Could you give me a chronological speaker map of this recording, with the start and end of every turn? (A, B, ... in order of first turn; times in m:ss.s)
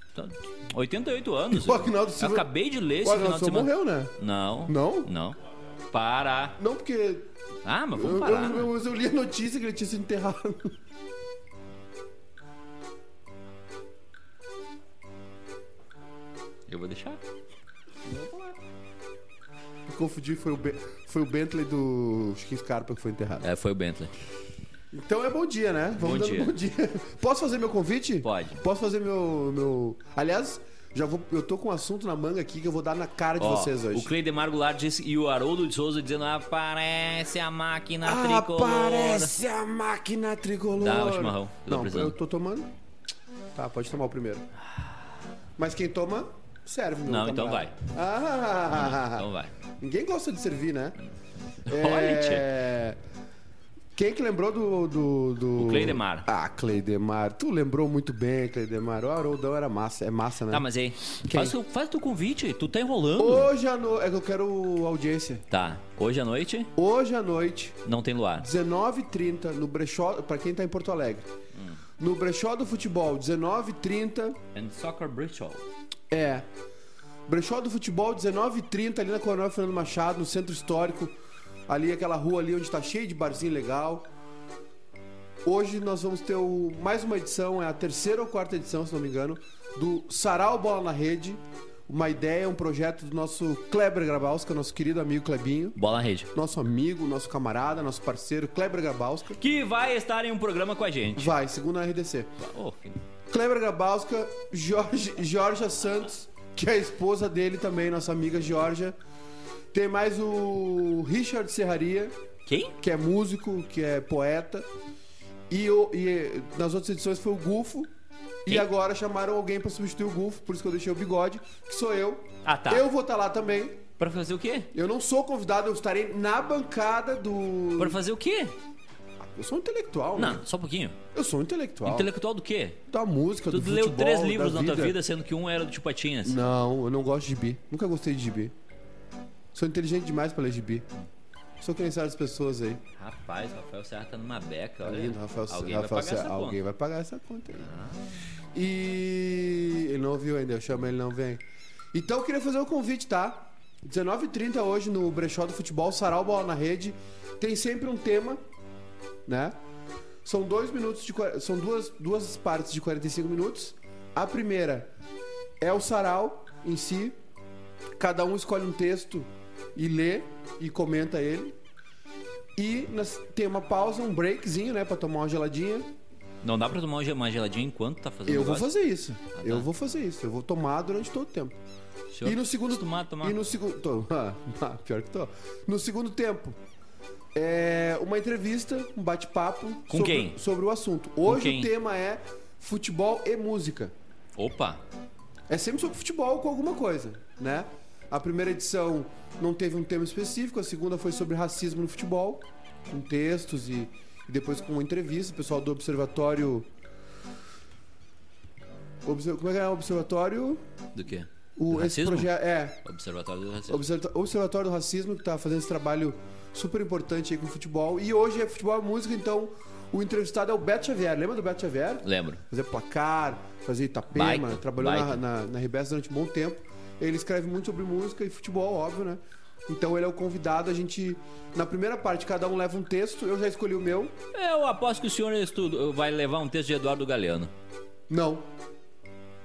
0:00.1-0:05.4 A
0:01.5-0:02.5 B
0:03.0-0:04.1 B
0:04.6-0:05.1 B
0:05.9-0:06.6 A
0:06.6-0:07.3 B
0:07.6-0:08.7 A
0:07.9-0:10.8 B
0:16.7-0:17.2 A
0:18.0-0:18.6 A
0:19.9-0:23.4 B
0:23.4-0:24.1 A
0:24.9-0:34.1 B
0:26.0-0:26.5 A
0:28.2-0:28.6 A
0:33.4-0:39.3 A
0:38.0-0:42.7 B
0:40.8-0:42.1 A
0:43.5-0:44.4 B
0:45.6-0:51.0 B
0:47.1-0:47.7 A
0:48.7-0:49.5 A
0:51.6-0:52.5 A
0:51.7-0:53.0 B
0:53.9-1:00.7 B
0:55.6-0:56.3 A
1:00.5-1:03.5 A
1:01.2-1:01.6 B
1:03.2-1:05.4 B
1:05.5-1:06.7 A
1:06.8-1:07.8 B
1:07.8-1:08.5 A
1:08.4-1:11.3 B
1:12.0-1:14.4 B
1:14.5-1:15.6 A
1:16.1-1:16.4 B
1:17.3-1:21.1 B
1:21.7-1:24.1 B
1:25.4-1:35.8 B
1:35.8-1:36.3 A
1:36.3-1:39.4 B
1:39.4-1:41.3 A
1:41.2-1:42.4 B
1:42.4-1:43.0 A
1:43.3-1:48.9 B
1:49.7-1:52.2 B
1:52.4-1:52.7 A
1:52.8-1:54.7 B
1:55.5-1:57.9 B
1:58.4-2:03.9 B
2:02.4-2:02.8 A
2:04.0-2:04.7 A
2:04.7-2:08.0 B
2:07.8-2:08.5 A
2:09.2-2:10.4 B
2:10.2-2:11.0 A
2:11.1-2:12.1 B
2:11.8-2:12.8 A
2:12.9-2:15.0 B
2:13.5-2:16.4 A
2:16.2-2:18.5 B
2:19.5-2:20.8 B
2:21.6-2:22.8 B
2:23.0-2:26.6 A
2:24.8-2:27.7 B
2:27.6-2:28.1 A
2:28.5-2:38.4 B
2:39.2-2:39.5 B
2:40.2-2:44.9 B
2:45.6-2:47.2 B
2:48.0-2:51.6 B
2:52.6-2:55.9 B
2:56.4-2:58.7 A
2:58.2-3:01.6 B
2:59.4-2:59.7 A
3:02.1-3:03.4 A
3:02.2-3:06.6 B
3:07.3-3:13.9 B
3:09.9-3:10.4 A
3:11.2-3:11.7 A
3:14.4-3:14.8 A
3:15.5-3:26.7 B
3:29.0-3:30.6 B
3:30.9-3:32.3 A
3:31.6-3:32.8 B
3:32.8-3:33.8 A
3:33.7-3:54.2 B
3:42.0-3:42.4 A
3:44.1-3:45.2 A
3:54.3-3:57.5 A
3:58.1-3:58.5 B